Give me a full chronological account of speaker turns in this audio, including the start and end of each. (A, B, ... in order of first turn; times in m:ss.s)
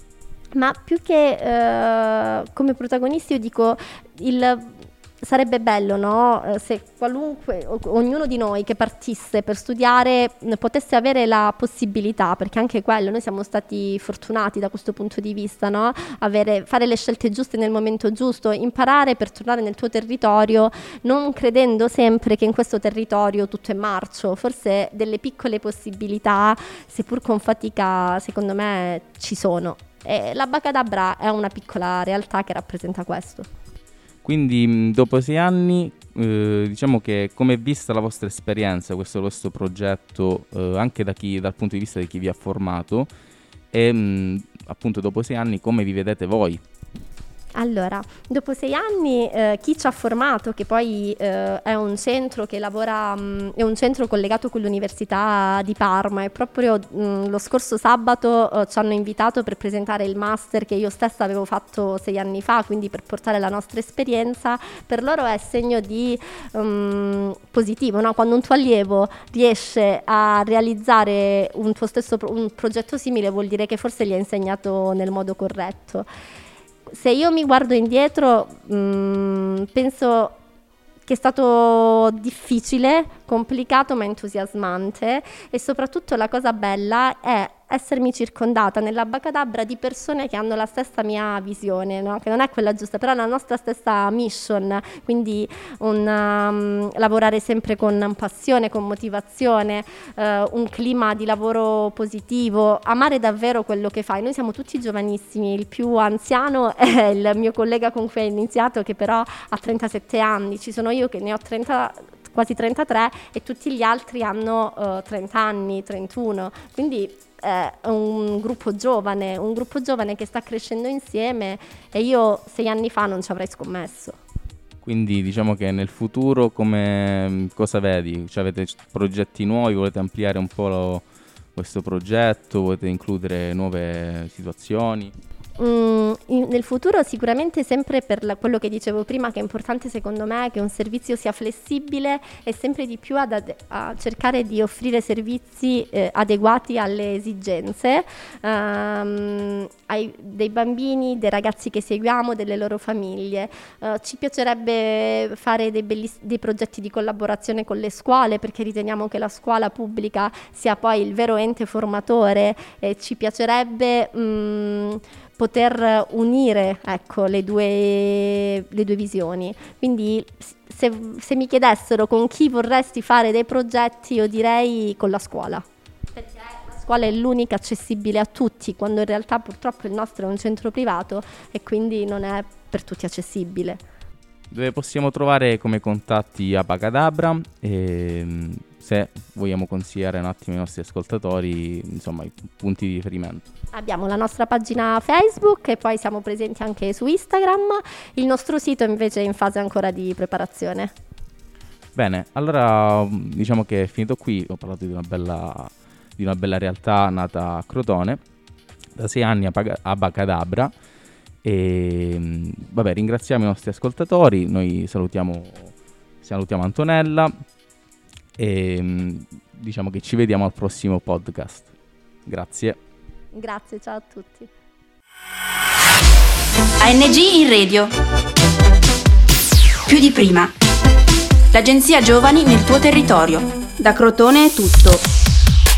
0:00.5-0:33.5 A
0:34.2-0:43.1 B
0:43.7-0:46.6 B
0:47.6-1:16.1 A
1:16.9-1:20.4 A
1:21.0-2:04.2 A
2:04.8-2:11.0 B
2:11.5-2:15.1 B
2:15.6-3:03.8 A
3:04.5-3:13.5 B
3:13.7-3:20.9 A
3:22.0-3:28.2 B
3:29.0-3:30.7 B
3:31.4-3:37.3 B
3:38.4-3:41.7 B
3:42.2-3:42.8 B
3:43.3-3:44.5 A
3:46.8-3:47.9 C
3:49.8-3:50.5 C
3:51.5-3:55.0 C